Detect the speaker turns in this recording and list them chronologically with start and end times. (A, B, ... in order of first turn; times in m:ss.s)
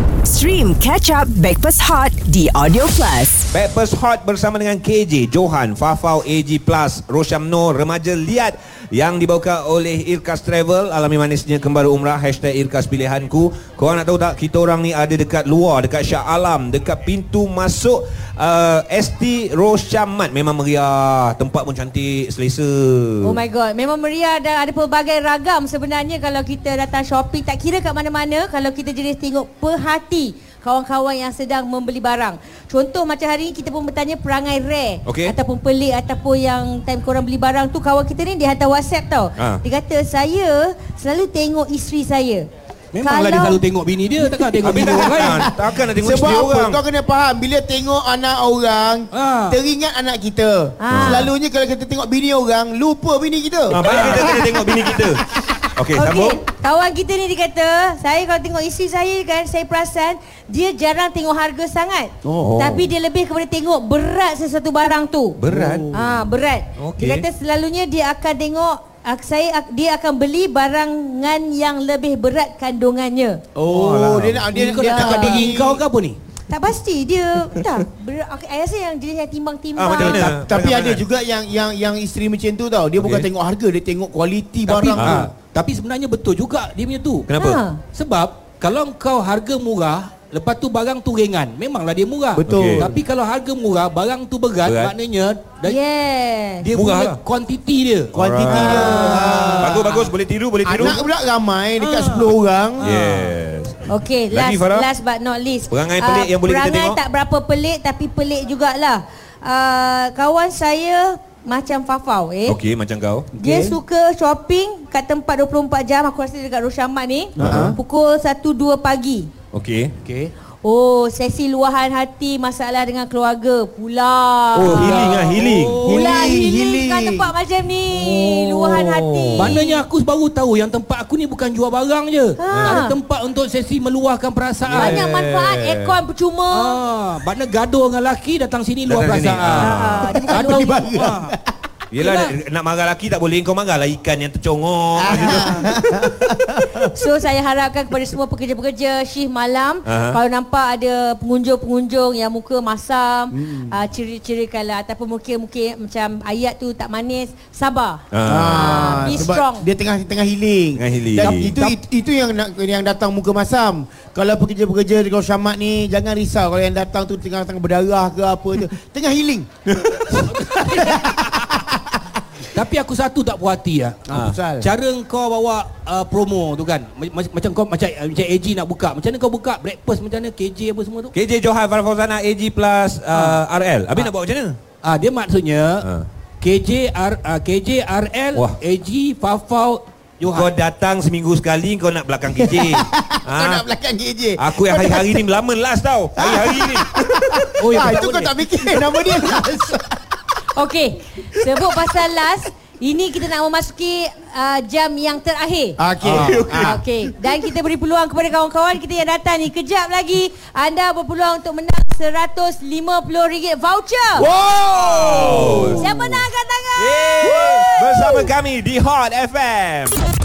0:00.3-0:03.4 A
0:03.5-0:23.4 B
0:23.2-0:42.5 C
0:35.0-0:35.3 B
0:42.9-0:45.5 D
0:43.0-0:43.6 C
0:44.6-0:46.8 B
0:44.8-0:54.6 E
0:49.1-0:49.6 D
0:50.8-0:51.3 C
0:50.9-0:51.3 B
0:53.7-0:55.2 B
0:53.7-0:54.3 D
0:54.2-0:54.7 C
0:55.7-0:56.4 B
0:55.9-1:05.4 C
1:02.2-1:02.5 E
1:02.4-1:02.9 B
1:05.4-1:05.9 B
1:05.5-1:06.1 E
1:05.9-1:13.4 C
1:06.8-1:07.2 B
1:13.6-1:15.8 E
1:13.7-1:14.4 B
1:14.5-1:16.2 D
1:14.6-1:15.5 C
1:16.5-1:20.3 C
1:19.8-1:21.0 B
1:20.0-1:25.2 E
1:23.0-1:23.3 B
1:24.7-1:27.3 D
1:24.9-1:25.3 B
1:27.3-1:27.6 B
1:27.4-1:27.8 C
1:27.8-1:35.8 D
1:32.3-1:32.9 E
1:32.4-1:32.9 B
1:34.6-1:34.9 B
1:35.6-1:36.7 C
1:36.6-1:40.1 D
1:36.7-1:37.2 B
1:38.1-1:39.8 E
1:38.1-1:41.0 B
1:40.6-1:42.9 E
1:41.8-1:43.3 D
1:42.8-1:44.9 B
1:43.9-1:52.6 C
1:45.7-1:47.0 B
1:52.4-1:53.3 B
1:53.4-1:53.8 D
1:53.4-1:59.3 C
1:57.4-1:57.8 E
1:57.4-1:57.7 B
1:59.5-1:59.9 B
2:00.0-2:00.3 D
2:00.6-2:05.1 C
2:04.5-2:05.8 B
2:04.7-2:05.3 E
2:04.8-2:06.3 D
2:05.8-2:07.3 E
2:05.8-2:09.8 C
2:08.0-2:15.0 D
2:09.0-2:09.4 B
2:12.4-2:13.0 C
2:12.5-2:12.8 B
2:14.7-2:16.0 B
2:14.7-2:16.8 C
2:16.5-2:21.3 D
2:18.9-2:19.8 B
2:19.5-2:20.8 C
2:20.0-2:21.4 E
2:21.9-2:25.7 B
2:25.0-2:26.9 E
2:26.9-2:39.7 C
2:29.8-2:30.2 B
2:33.3-2:33.7 E
2:38.1-2:39.2 B
2:38.2-2:49.5 E
2:40.8-2:41.5 B
2:41.4-2:41.7 D
2:49.7-2:50.1 B
2:50.1-2:51.2 D
2:50.9-2:51.8 E
2:52.5-2:54.0 D
2:54.1-2:54.7 E
2:54.1-2:54.4 B
2:54.6-3:01.1 D
3:01.1-3:04.6 B
3:03.1-3:03.4 D
3:04.8-3:05.9 D
3:06.4-3:10.5 D
3:10.3-3:13.6 B
3:12.4-3:15.2 E
3:14.4-3:16.9 B
3:16.2-3:19.9 E
3:17.6-3:18.3 D
3:20.5-3:25.8 C
3:25.8-3:26.8 E
3:26.0-3:26.4 D
3:26.1-3:26.8 B
3:26.5-3:34.3 C
3:34.2-3:35.9 E
3:34.5-3:35.9 B
3:35.6-3:38.2 C
3:36.8-3:40.0 B